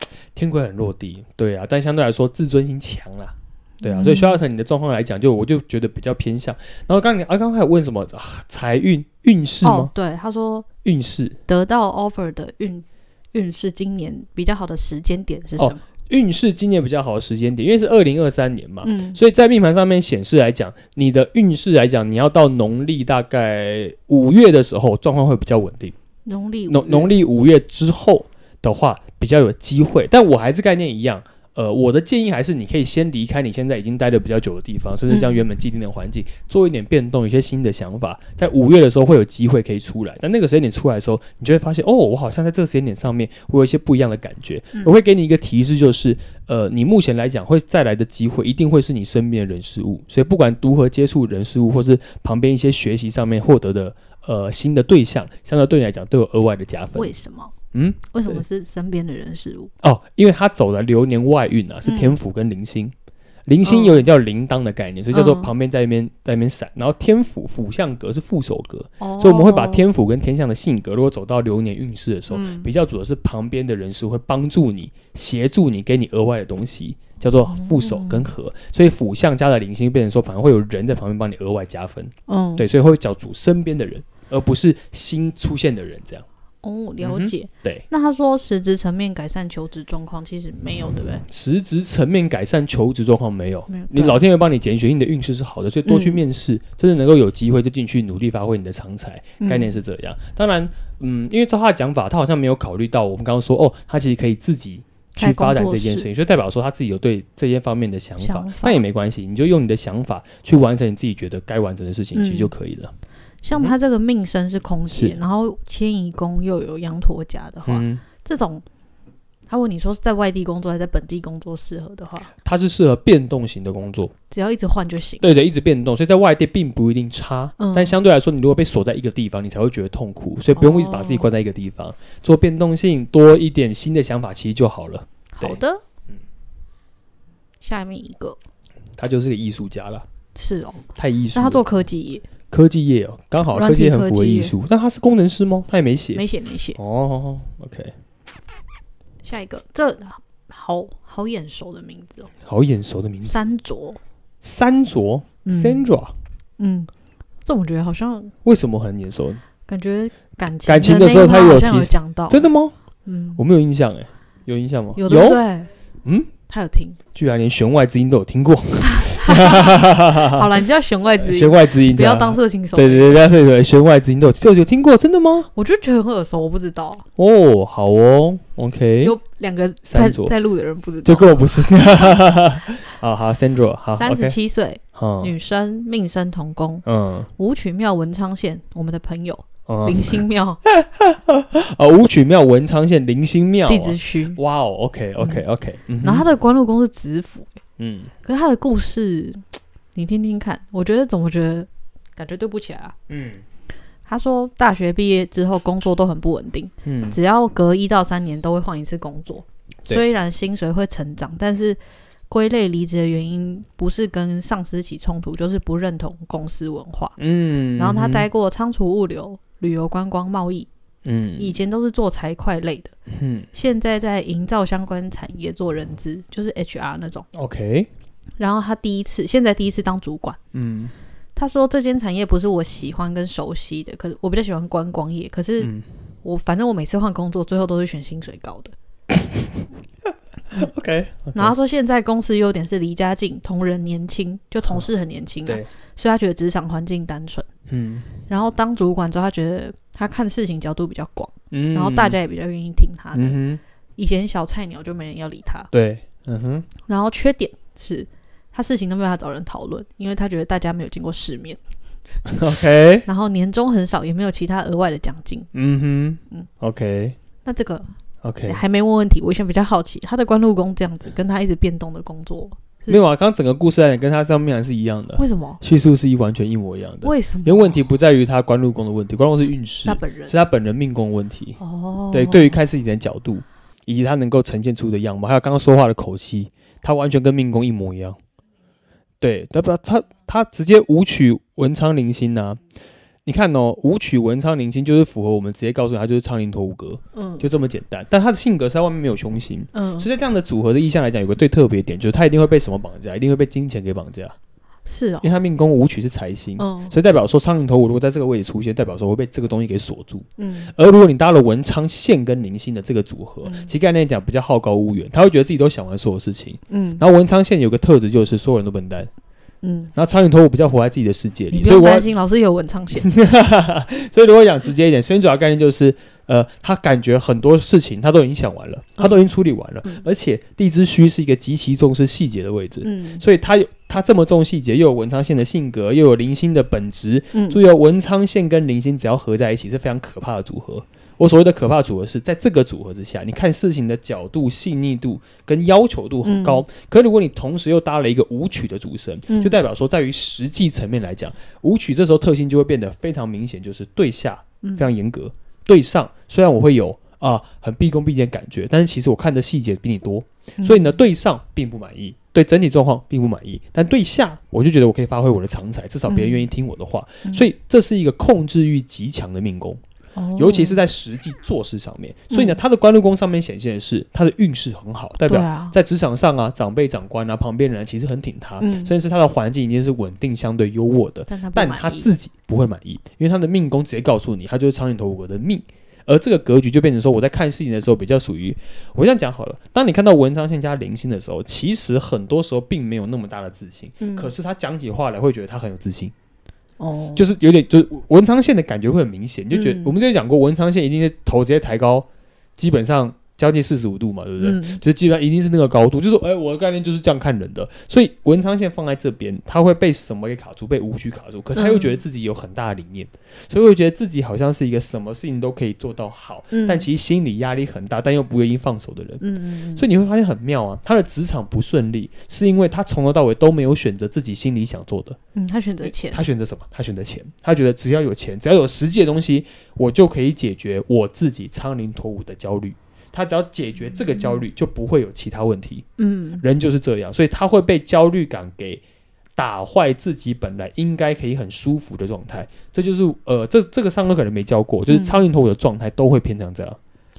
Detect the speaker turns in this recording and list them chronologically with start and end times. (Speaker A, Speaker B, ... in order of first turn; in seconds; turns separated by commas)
Speaker A: 0.4-9.9, Speaker B: 3.8-4.4, Speaker B: 9.6-10.7, Speaker A: 10.8-11.4, Speaker B: 11.5-15.8, Speaker A: 15.6-25.9, Speaker B: 18.8-19.2, Speaker B: 26.3-27.1, Speaker A: 26.7-57.1, Speaker B: 35.1-35.4, Speaker B: 57.0-57.5, Speaker A: 57.7-58.4, Speaker B: 58.1-59.7, Speaker A: 59.8-62.9, Speaker B: 61.9-62.2, Speaker A: 63.5-86.2, Speaker B: 63.6-64.0, Speaker B: 65.1-65.5, Speaker B: 69.0-69.9, Speaker B: 72.3-72.7, Speaker B: 77.5-78.2, Speaker B: 82.3-82.7, Speaker B: 86.6-91.2, Speaker A: 87.0-87.8, Speaker A: 91.3-112.9, Speaker B: 93.7-94.2, Speaker B: 95.8-96.2, Speaker B: 99.4-99.8, Speaker B: 105.2-106.1, Speaker B: 108.2-108.8, Speaker B: 112.1-112.5, Speaker B: 113.4-118.6, Speaker A: 114.9-115.2, Speaker A: 117.7-118.0, Speaker B: 119.5-122.3, Speaker A: 122.4-124.1, Speaker B: 124.3-125.3, Speaker A: 125.2-135.6, Speaker B: 127.6-128.0, Speaker B: 130.6-131.3, Speaker B: 135.4-135.8, Speaker B: 137.6-138.4, Speaker A: 139.0-140.1, Speaker B: 140.3-142.3, Speaker A: 141.0-141.6, Speaker A: 142.5-146.2, Speaker B: 143.5-144.5, Speaker B: 146.1-146.8, Speaker A: 146.8-147.9, Speaker B: 149.2-152.3, Speaker A: 152.4-153.4, Speaker B: 153.2-154.0, Speaker A: 154.4-156.2, Speaker B: 155.4-155.9, Speaker B: 156.6-156.9, Speaker B: 157.4-158.3, Speaker A: 158.4-159.4, Speaker B: 159.7-162.5, Speaker A: 160.7-162.7, Speaker B: 163.1-163.4, Speaker A: 163.4-165.4, Speaker B: 165.0-165.7, Speaker A: 166.1-166.3, Speaker B: 166.5-167.0, Speaker A: 167.2-170.5, Speaker B: 168.9-173.2, Speaker A: 171.2-175.5, Speaker B: 175.6-177.1, Speaker A: 177.2-179.2, Speaker B: 179.0-182.2, Speaker A: 179.9-180.3, Speaker A: 181.0-184.4, Speaker B: 184.0-186.8, Speaker A: 185.0-185.3, Speaker A: 186.9-187.3, Speaker B: 187.4-190.6, Speaker A: 189.7-196.3, Speaker B: 193.7-194.4, Speaker B: 195.2-195.4, Speaker B: 196.0-197.5, Speaker A: 197.8-198.1, Speaker B: 198.2-199.4, Speaker B: 199.9-203.0, Speaker A: 203.1-203.4, Speaker B: 204.1-217.2, Speaker A: 206.8-207.2, Speaker A: 217.2-218.3, Speaker B: 217.8-220.7, Speaker A: 221.1-221.6, Speaker B: 221.4-222.9, Speaker A: 223.1-223.5, Speaker B: 223.5-227.3, Speaker A: 227.3-227.9, Speaker B: 228.4-230.4, Speaker A: 230.5-230.9, Speaker B: 231.4-235.7, Speaker A: 235.6-235.9, Speaker B: 236.2-238.7, Speaker A: 240.5-241.5, Speaker B: 241.3-247.5, Speaker A: 247.7-248.1, Speaker B: 248.3-253.4, Speaker A: 251.5-252.2, Speaker A: 253.1-253.6, Speaker B: 254.0-255.7, Speaker A: 255.7-256.7, Speaker B: 256.8-261.6, Speaker A: 262.3-263.1, Speaker B: 263.1-265.5, Speaker A: 265.5-267.2, Speaker B: 267.4-267.9, Speaker A: 268.2-268.6, Speaker B: 268.4-273.0, Speaker A: 272.9-281.6, Speaker B: 275.2-275.6, Speaker B: 277.0-277.8, Speaker B: 279.9-280.3, Speaker B: 281.6-282.6, Speaker A: 282.1-288.2, Speaker A: 289.2-292.6, Speaker A: 293.3-304.4, Speaker B: 297.1-297.5, Speaker B: 299.7-300.1, Speaker B: 304.9-305.3, Speaker A: 305.2-319.1, Speaker B: 306.6-306.9, Speaker B: 310.4-310.7, Speaker B: 313.4-313.7, Speaker B: 316.7-317.0, Speaker B: 319.6-319.9, Speaker A: 319.9-322.2, Speaker B: 321.5-323.1, Speaker A: 323.0-369.8, Speaker B: 332.8-333.2, Speaker B: 337.3-337.6, Speaker B: 346.2-346.6, Speaker B: 349.3-349.6, Speaker B: 360.6-361.0, Speaker B: 366.1-366.5, Speaker B: 370.2-370.8, Speaker A: 370.4-396.1, Speaker B: 372.3-372.6, Speaker B: 375.2-375.8, Speaker B: 378.6-378.9, Speaker B: 381.3-382.1, Speaker B: 394.0-394.3, Speaker B: 396.8-397.2, Speaker A: 397.1-419.2, Speaker B: 399.5-399.9, Speaker B: 404.4-404.8, Speaker B: 411.6-411.9, Speaker B: 416.5-416.9, Speaker B: 419.2-419.9, Speaker A: 419.8-425.2, Speaker B: 425.4-426.2, Speaker A: 425.9-435.9, Speaker B: 436.0-436.4, Speaker A: 436.4-438.8, Speaker A: 439.4-446.8, Speaker B: 444.9-445.2